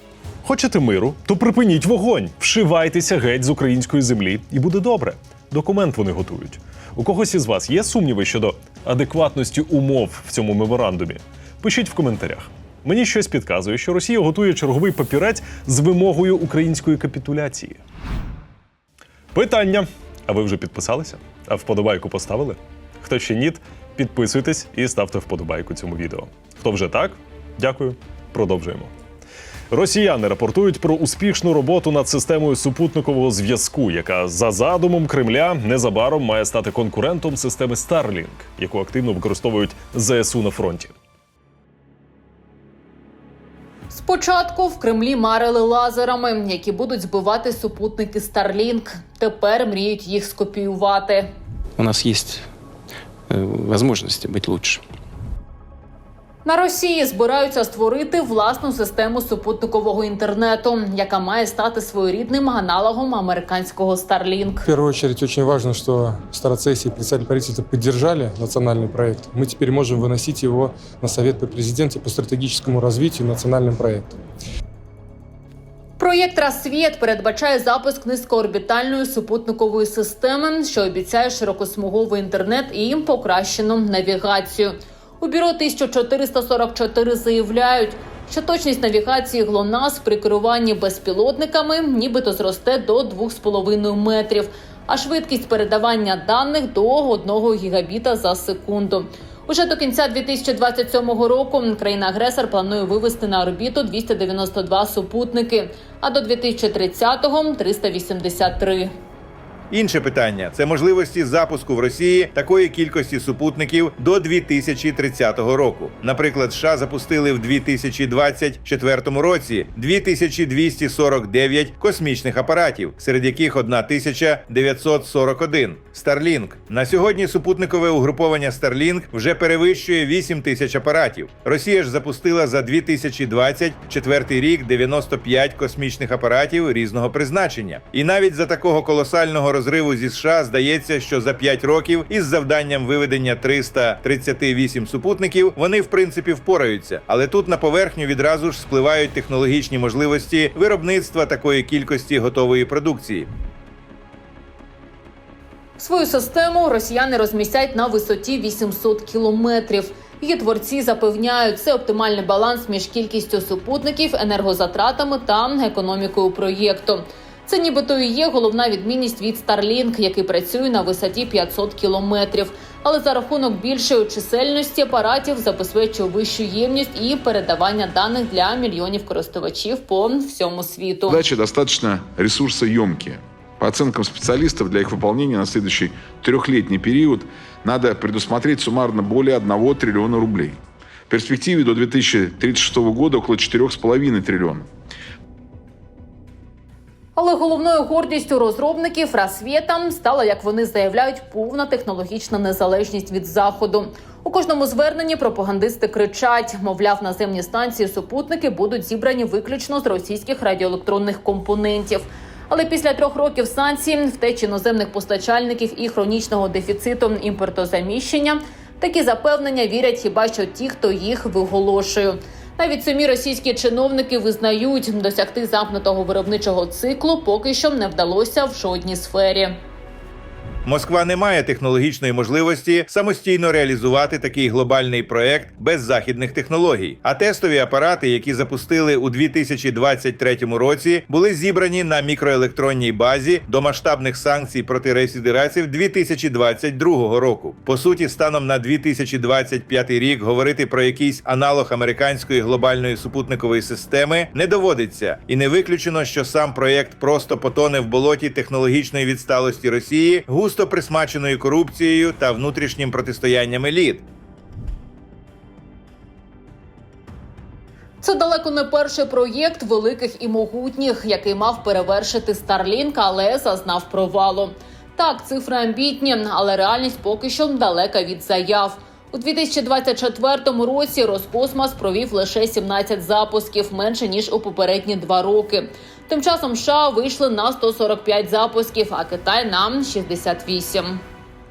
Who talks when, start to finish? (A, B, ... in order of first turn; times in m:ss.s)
0:00.4-0:17.8 A
0:19.3-0:28.9 A
0:29.7-0:40.9 A
0:43.9-0:51.3 B
0:51.8-0:52.5 C
0:53.3-0:54.8 C
0:56.4-1:04.6 B
1:04.6-1:14.1 D
1:16.0-1:48.9 B
1:49.7-2:33.3 E
2:35.8-3:01.2 B
3:01.1-3:14.7 F
3:17.2-3:49.6 B
3:50.6-4:24.0 E
4:28.0-4:51.0 B